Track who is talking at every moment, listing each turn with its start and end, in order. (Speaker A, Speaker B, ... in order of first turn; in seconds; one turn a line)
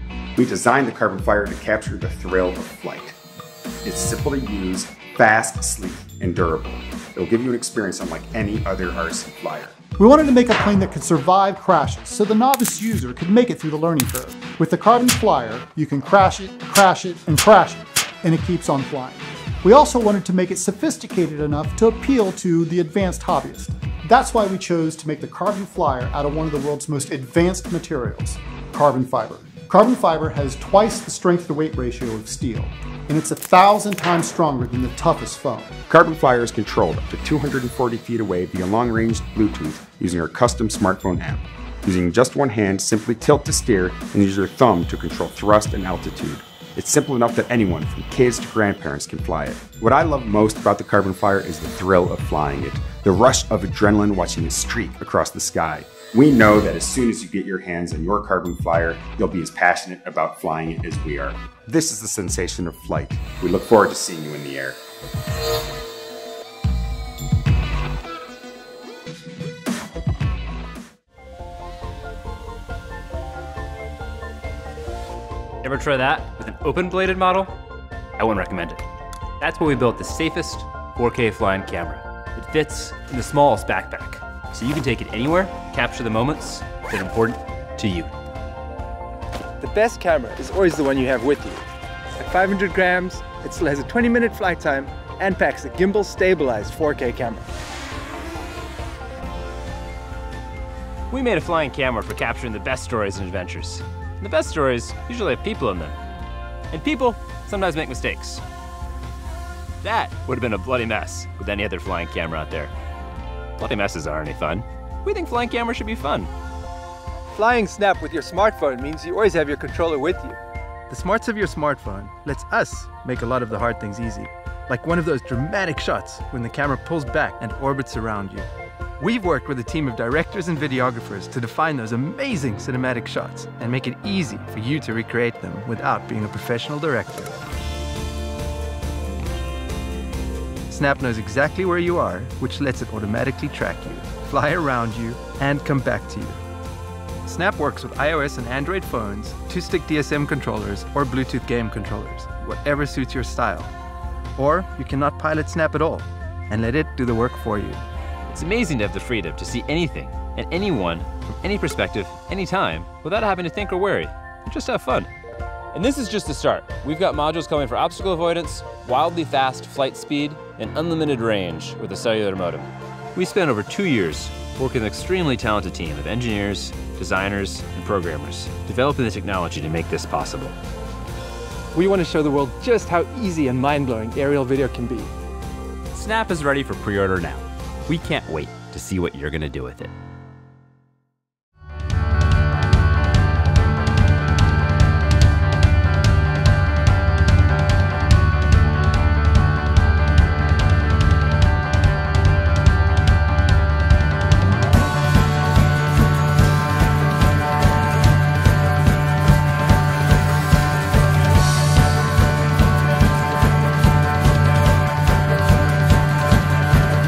Speaker A: 0.4-3.1
Speaker A: 3.8-9.7
Speaker B: 10.0-35.7
Speaker A: 35.9-64.8
Speaker C: 75.6-77.5
Speaker C: 78.2-78.8
Speaker C: 79.4-88.1
Speaker D: 89.6-91.6
Speaker D: 92.2-97.5
Speaker C: 101.1-105.9
Speaker C: 106.7-108.4
Speaker C: 109.8-112.7
Speaker C: 113.6-116.3
Speaker D: 117.3-120.4
Speaker D: 120.9-128.5
Speaker D: 129.0-137.3
Speaker D: 140.7-146.4
Speaker D: 147.2-153.7
Speaker D: 154.3-157.8
Speaker C: 158.3-165.1
Speaker C: 165.7-180.5
Speaker D: 181.7-185.1
Speaker C: 185.9-189.9